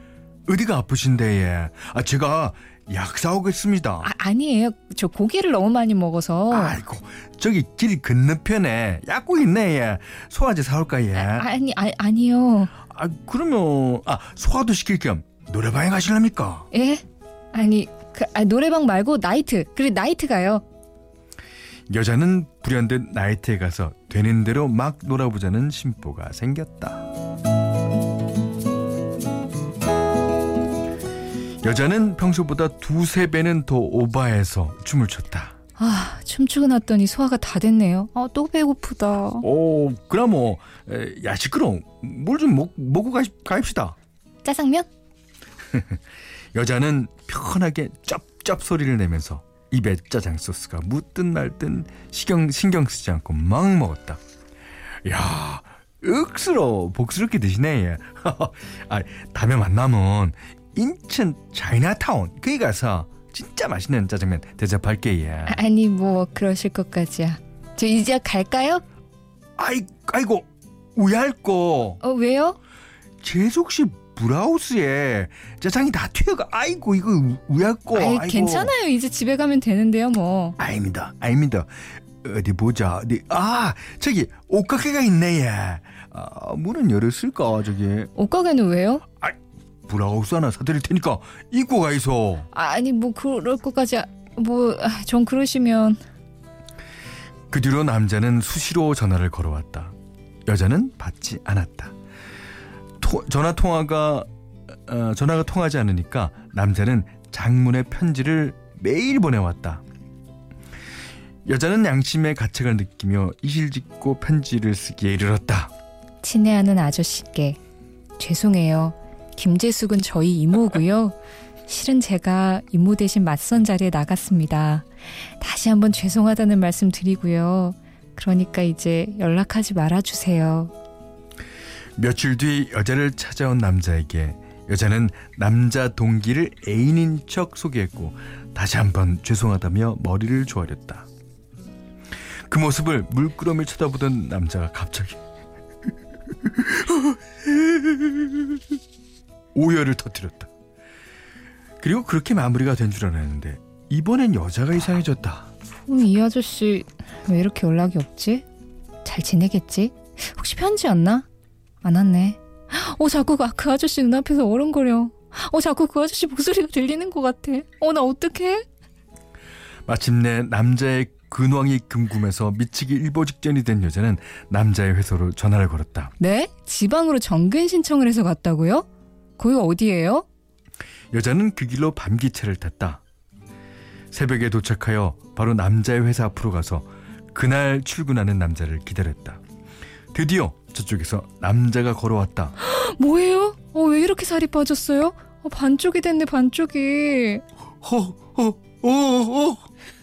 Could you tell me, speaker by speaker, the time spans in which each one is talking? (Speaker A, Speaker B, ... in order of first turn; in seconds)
Speaker A: 0.5-4.1, 6.5-11.4, 12.8-16.7, 21.9-27.1, 31.6-35.5, 39.4-44.0, 45.7-46.0, 46.5-54.2, 55.0-65.6, 69.6-72.0, 73.2-78.7, 80.6-88.1, 89.2-92.5, 97.5-99.9, 100.5-101.9, 103.0-109.8, 111.5-115.7, 132.0-141.1, 142.5-145.2, 146.4-148.6, 149.5-150.5, 151.8-155.5, 169.8-176.1, 181.1-183.0, 184.1-189.4, 190.1-192.5, 197.8-199.7
Speaker B: 4.0-6.8, 11.1-12.7, 16.7-20.6, 35.8-39.4, 44.4-44.9, 65.5-68.8, 72.0-72.6, 77.9-80.6, 88.2-89.0, 92.5-96.0, 116.2-117.6, 118.2-130.7, 155.9-158.4, 159.0-161.2, 161.8-168.7, 176.2-178.8, 179.4-180.2, 192.6-197.4